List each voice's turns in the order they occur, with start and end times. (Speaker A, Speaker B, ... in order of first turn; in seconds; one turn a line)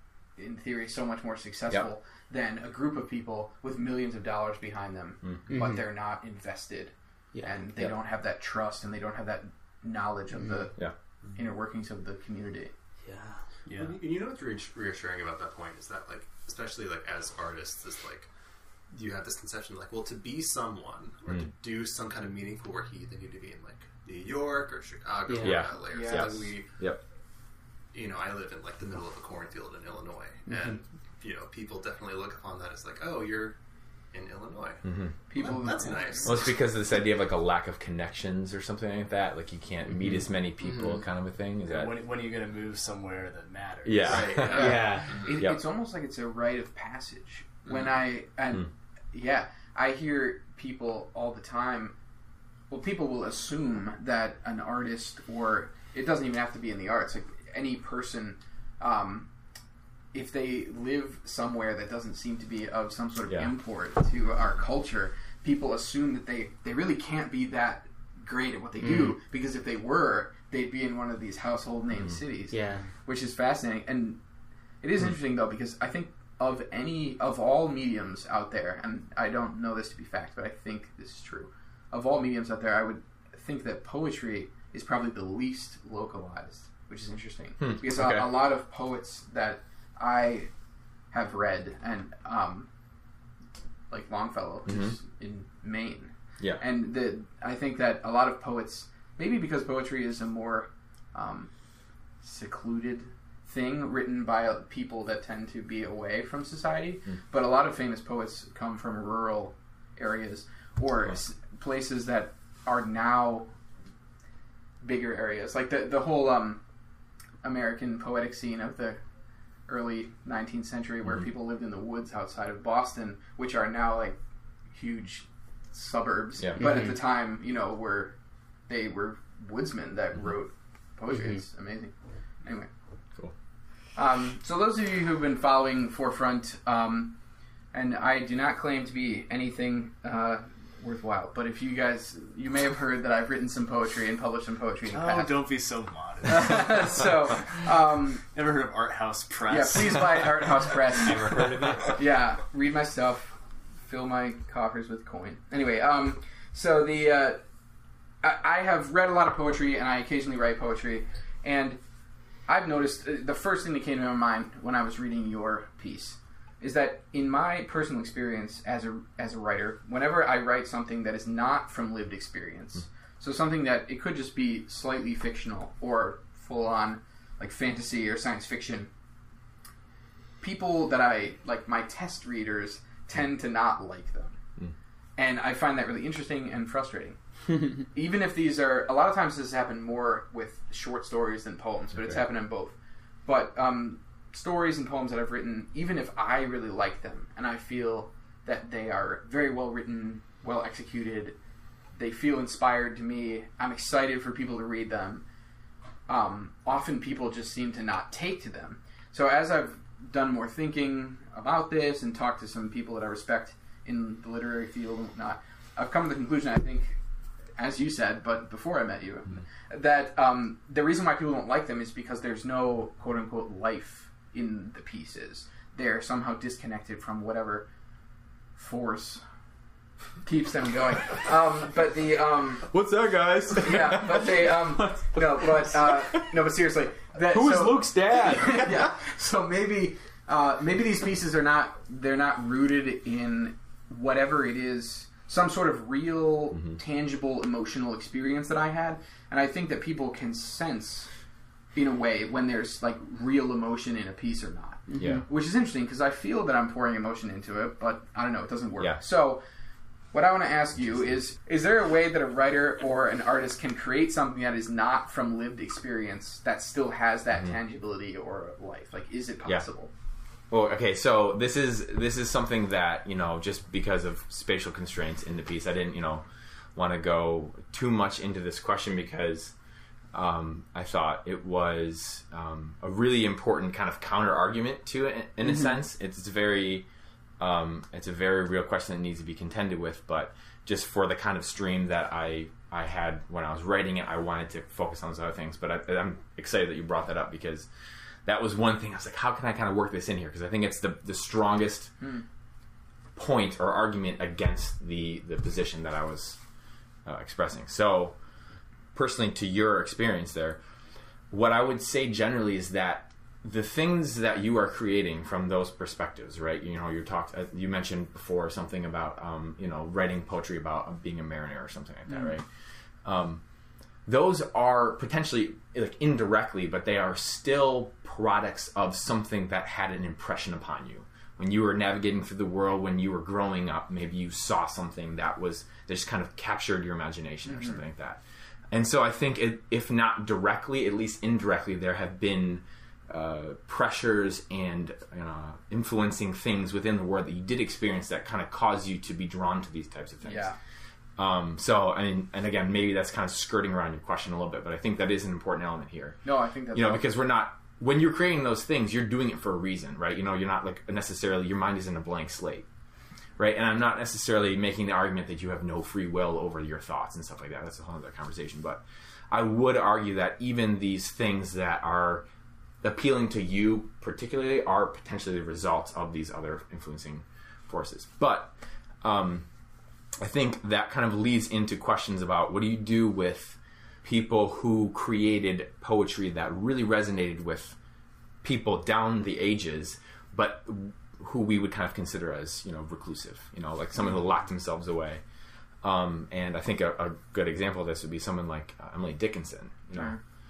Speaker A: 0.4-12.7
Speaker B: 5.2-5.5
Speaker C: 5.5-5.8
Speaker C: 13.1-13.4
Speaker D: 13.7-14.0
Speaker E: 13.7-18.3
Speaker E: 18.9-26.8
Speaker C: 25.3-25.6
Speaker B: 25.4-27.0
Speaker A: 25.8-26.5
Speaker E: 27.9-33.6
Speaker E: 34.1-36.5
Speaker B: 34.8-35.1
Speaker A: 35.3-36.3
Speaker B: 36.2-42.0
Speaker D: 41.7-44.4
Speaker B: 43.9-45.6
Speaker E: 44.0-45.3
Speaker C: 44.5-45.2
Speaker A: 44.5-52.0
Speaker A: 52.7-59.3
Speaker A: 60.1-74.2
Speaker B: 63.3-63.5
Speaker C: 68.8-69.2
Speaker C: 72.5-72.9
Speaker A: 74.8-90.5
Speaker B: 87.6-88.3
Speaker A: 91.1-92.7
Speaker A: 93.9-101.5
Speaker B: 94.7-95.0
Speaker A: 102.2-113.5
Speaker A: 114.8-116.6
Speaker A: 117.4-119.0
Speaker A: 119.7-124.2
Speaker A: 124.7-128.2
Speaker B: 126.4-126.6
Speaker C: 126.6-126.9
Speaker A: 128.7-132.7
Speaker C: 131.1-131.4
Speaker A: 133.9-137.2
Speaker A: 137.7-145.5
Speaker D: 144.9-147.7
Speaker A: 146.3-148.2
Speaker D: 148.3-150.8
Speaker A: 149.5-151.2
Speaker C: 151.1-151.9
Speaker B: 151.3-151.7
Speaker A: 151.9-157.4
Speaker A: 158.2-161.8
Speaker A: 162.5-178.9
Speaker A: 180.4-184.4
Speaker A: 185.2-201.4
Speaker A: 202.0-205.2
Speaker A: 206.1-217.0
Speaker A: 217.6-227.7
Speaker A: 228.6-229.2
Speaker A: 230.2-232.7
Speaker B: 232.7-236.3
Speaker A: 233.6-251.1
Speaker B: 237.3-239.0
Speaker B: 246.5-246.8
Speaker A: 251.8-259.4
Speaker C: 254.9-255.2
Speaker B: 255.0-255.2
Speaker A: 260.1-269.9
Speaker B: 270.5-276.2
Speaker B: 276.8-279.6
Speaker B: 280.1-286.9
Speaker B: 287.4-297.7
Speaker B: 298.2-301.9
Speaker B: 303.1-306.4
Speaker B: 307.1-308.2
Speaker B: 308.9-310.6
Speaker B: 311.3-322.5
Speaker B: 323.1-323.4
Speaker B: 324.1-350.5
Speaker A: 350.2-350.6
Speaker B: 351.2-362.7
Speaker A: 356.2-357.1
Speaker B: 363.4-372.3
Speaker B: 372.8-379.5
Speaker B: 380.2-387.8
Speaker B: 388.4-395.2
Speaker B: 395.8-400.2